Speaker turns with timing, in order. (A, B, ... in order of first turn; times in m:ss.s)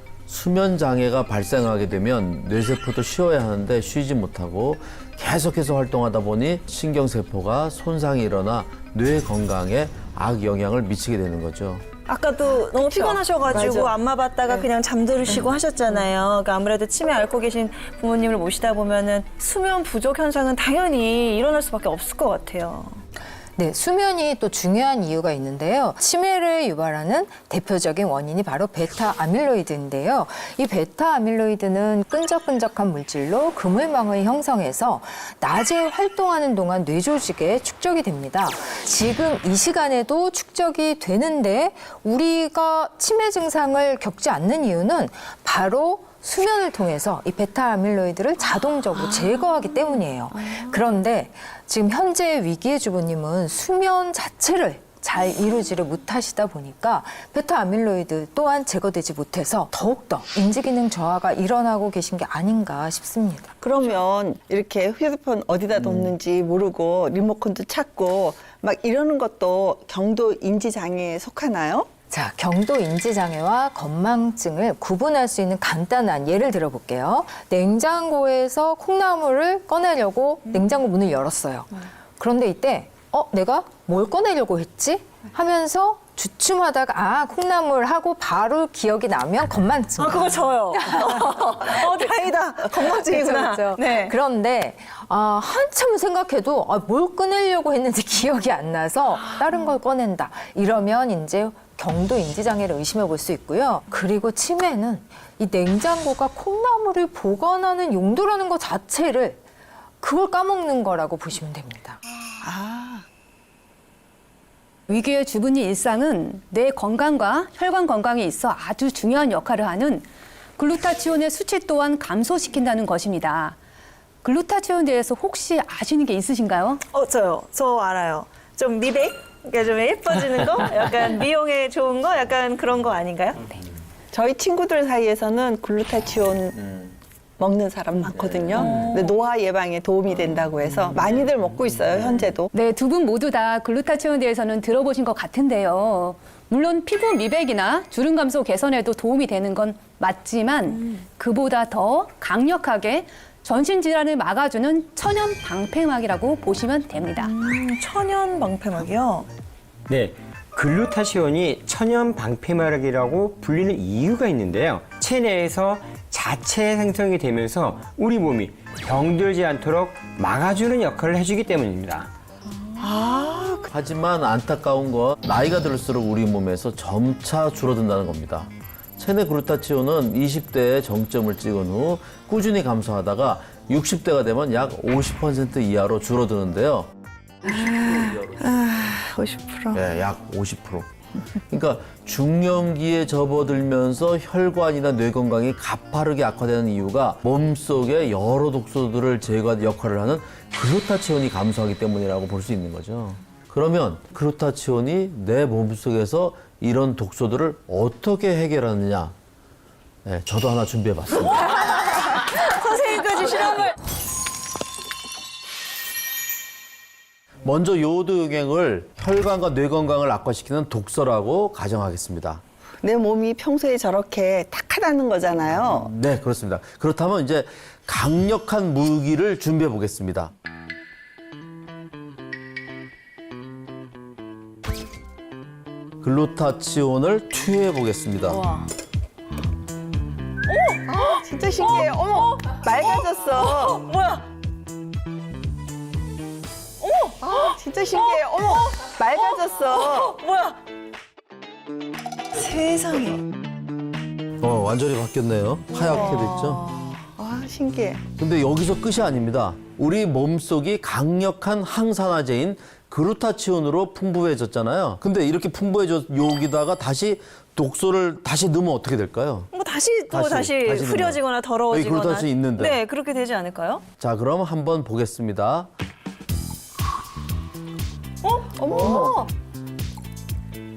0:00.3-0:11.8 A
0:12.1-0:23.0 B
0:12.8-0:14.7 C
0:15.3-0:16.0 C
0:23.6-1:03.6 D
1:03.6-1:11.9 C
1:05.8-1:06.1 A
1:12.1-1:31.1 D
1:30.0-1:34.1 B
1:31.9-1:49.4 D
1:50.0-1:52.0 D
1:52.4-1:53.0 C
1:54.9-2:00.0 E
2:00.6-2:03.6 E
2:04.2-2:06.8 E
2:06.9-2:13.6 B
2:14.1-2:16.7 C
2:17.4-2:22.5 C
2:18.1-2:18.9 A
2:18.6-2:19.1 B
2:22.5-2:37.3 E
2:37.2-2:39.3 B
2:39.9-2:52.1 F
2:52.8-2:53.7 C
2:53.7-3:06.9 A
3:07.4-3:09.8 C
3:07.9-3:08.4 A
3:09.7-3:10.9 A
3:11.5-3:29.1 A
3:30.0-3:31.4 A
3:31.3-3:33.7 B
3:37.4-3:42.4 A
3:42.8-3:45.9 C
3:45.7-3:50.3 A
3:56.0-3:58.5 A
4:00.5-4:04.3 B
4:00.9-4:03.8 C
4:06.8-4:10.6 B
4:07.2-4:10.1 C
4:12.3-4:13.2 B
4:14.4-4:16.7 A
4:15.8-4:16.6 B
4:15.8-4:16.2 C
4:17.1-4:18.0 C
4:18.2-4:29.5 A
4:29.5-4:33.8 B
4:30.1-4:32.8 A
4:34.0-4:35.7 A
4:38.2-4:39.3 B
4:38.5-4:39.2 C